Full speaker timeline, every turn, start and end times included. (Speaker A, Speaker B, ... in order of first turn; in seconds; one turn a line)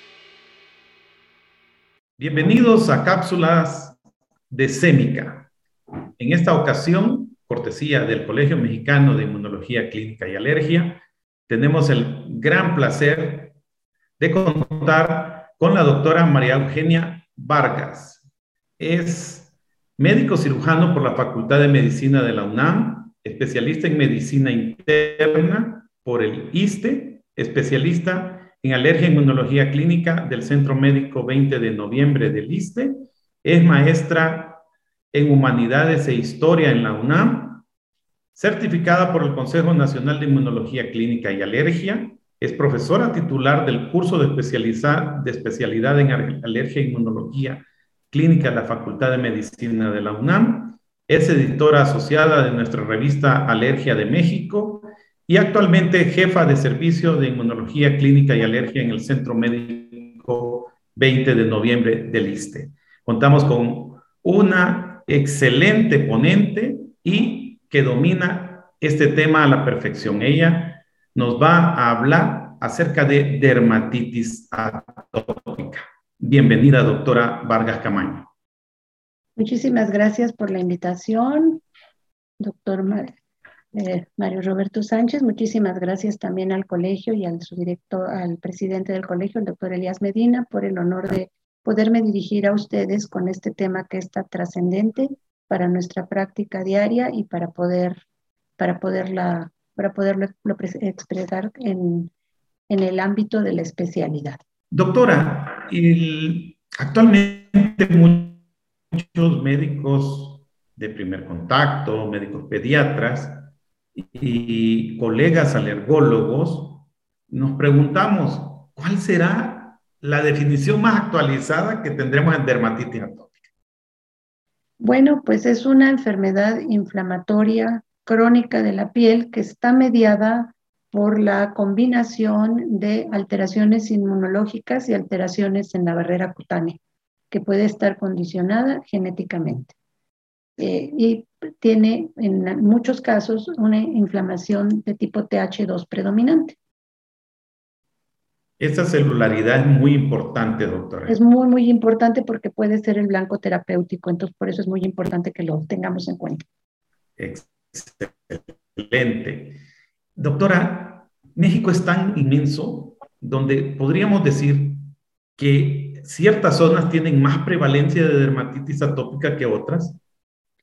Speaker A: 2.2-4.0
Speaker A: 4.5-5.5
Speaker A: 6.2-13.6
Speaker A: 14.2-18.2
Speaker A: 18.8-37.6
Speaker A: 38.3-78.3
Speaker B: 79.3-81.6
Speaker B: 82.4-83.1
Speaker B: 83.7-98.0
Speaker B: 98.6-102.1
Speaker B: 102.7-104.4
Speaker A: 104.7-108.4
Speaker A: 108.9-123.4
Speaker B: 124.8-139.7
Speaker B: 140.6-146.6
Speaker A: 148.6-151.2
Speaker B: 151.1-156.4
Speaker A: 157.2-159.6
Speaker A: 160.2-164.8
Speaker A: 165.3-170.0